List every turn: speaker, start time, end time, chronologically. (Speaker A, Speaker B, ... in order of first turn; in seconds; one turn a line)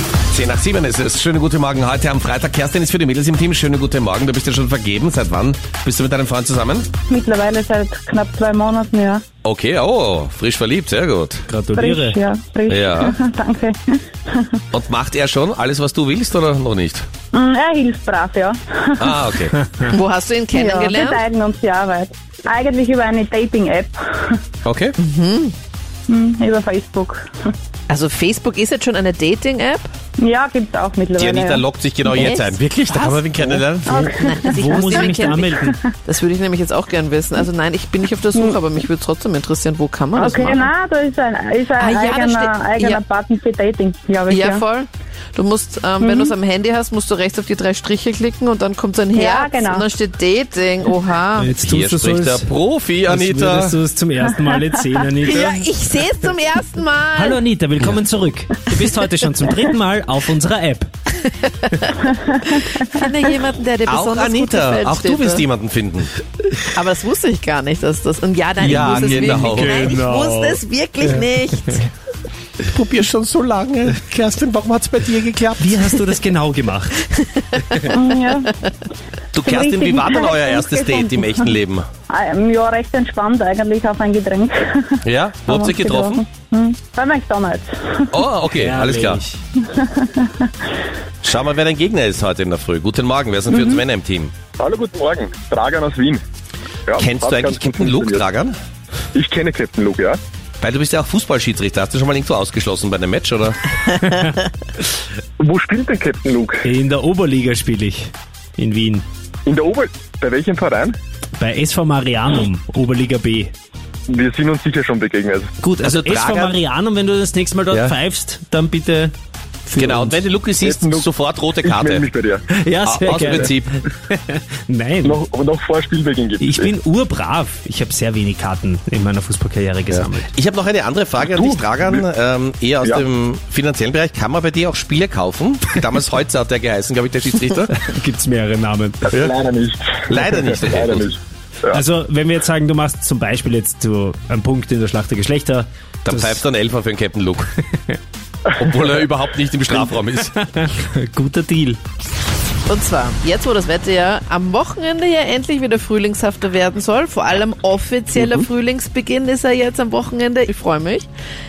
Speaker A: 0.3-6.9
Speaker B: 7.1-9.2
Speaker A: 9.4-11.4
Speaker C: 11.5-12.2
Speaker B: 11.7-14.6
Speaker A: 12.7-13.2
Speaker A: 14.7-17.1
Speaker B: 17.3-19.2
Speaker A: 19.0-19.6
Speaker D: 19.8-21.2
Speaker B: 20.5-24.4
Speaker A: 24.6-24.9
Speaker D: 25.0-25.5
Speaker B: 26.1-27.5
Speaker D: 27.9-29.9
Speaker B: 30.2-31.6
Speaker A: 31.1-34.0
Speaker D: 32.0-40.7
Speaker B: 33.9-35.1
Speaker C: 34.5-35.8
Speaker B: 40.1-44.6
Speaker D: 41.8-43.0
Speaker D: 44.3-51.5
Speaker B: 46.0-46.3
Speaker B: 49.1-49.8
Speaker C: 51.4-52.5
Speaker A: 51.6-53.8
Speaker C: 53.0-55.7
Speaker D: 55.2-57.4
Speaker C: 57.1-60.9
Speaker B: 62.3-62.8
Speaker D: 62.8-65.5
Speaker A: 63.9-66.1
Speaker D: 66.6-71.8
Speaker A: 68.6-69.9
Speaker C: 68.6-70.6
Speaker A: 72.6-75.7
Speaker C: 75.6-77.1
Speaker D: 77.4-77.8
Speaker B: 77.9-78.5
Speaker A: 79.3-81.9
Speaker B: 79.4-81.5
Speaker B: 82.1-88.1
Speaker A: 85.0-86.2
Speaker A: 88.1-89.2
Speaker C: 88.5-89.4
Speaker B: 89.7-90.5
Speaker A: 91.2-94.3
Speaker B: 93.5-93.8
Speaker E: 94.5-96.2
Speaker E: 96.9-98.2
Speaker A: 97.0-98.6
Speaker E: 99.1-100.2
Speaker A: 100.6-103.8
Speaker E: 105.4-106.7
Speaker C: 106.6-109.0
Speaker E: 109.5-111.0
Speaker C: 111.4-113.5
Speaker E: 114.1-115.5
Speaker C: 115.6-119.1
Speaker A: 115.8-116.5
Speaker C: 119.7-120.2
Speaker A: 119.8-122.0
Speaker E: 120.6-122.4
Speaker C: 122.5-125.2
Speaker A: 122.8-123.7
Speaker E: 125.0-126.7
Speaker C: 126.4-130.3
Speaker A: 130.3-137.7
Speaker E: 131.3-131.6
Speaker C: 137.7-139.0
Speaker E: 139.0-141.2
Speaker A: 140.1-141.1
Speaker C: 141.7-146.4
Speaker A: 146.0-147.5
Speaker A: 148.5-150.3
Speaker C: 150.3-151.8
Speaker D: 152.7-161.1